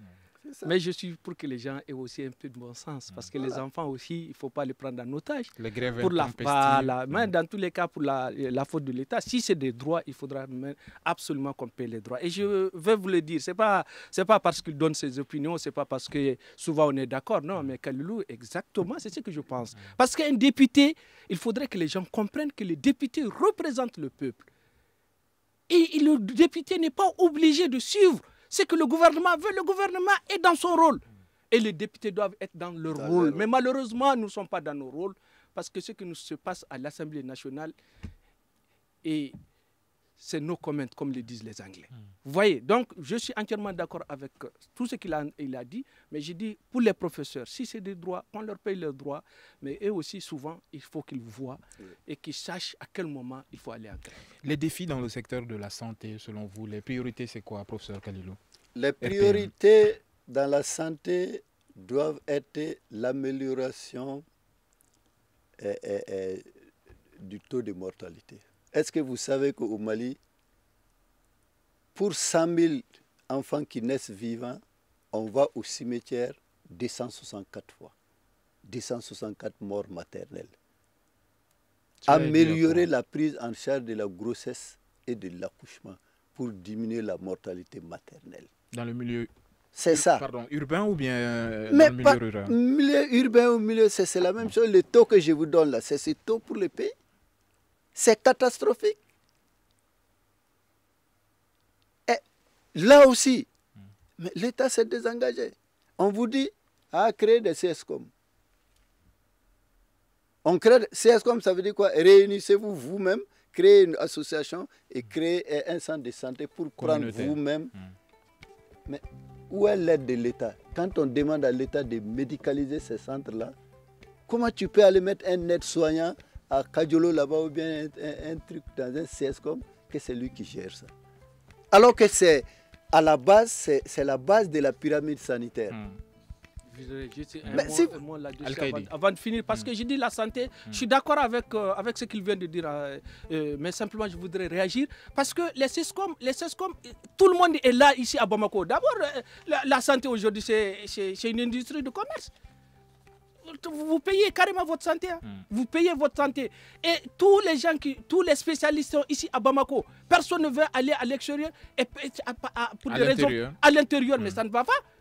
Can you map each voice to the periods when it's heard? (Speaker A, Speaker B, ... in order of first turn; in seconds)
Speaker A: 0.4-0.7, 3.4-3.6, 32.9-33.5, 58.8-64.2, 65.6-66.5, 67.2-70.2, 71.9-74.6, 75.1-77.9, 78.6-80.5, 82.1-88.5, 89.7-90.2, 91.7-96.9, 97.9-99.0, 102.7-103.5, 104.2-108.1, 110.4-117.7, 118.8-123.5, 124.3-130.9, 131.7-135.8, 137.5-137.9
Speaker B: 0.6-24.5, 25.7-37.7, 39.0-39.4, 40.2-54.2, 136.7-152.3, 153.4-164.8
Speaker C: 5.6-7.3, 54.4-58.4, 59.0-59.5, 82.0-82.8, 88.7-89.3, 89.9-92.5, 116.8-117.4, 135.7-136.0, 138.4-138.9, 162.9-163.6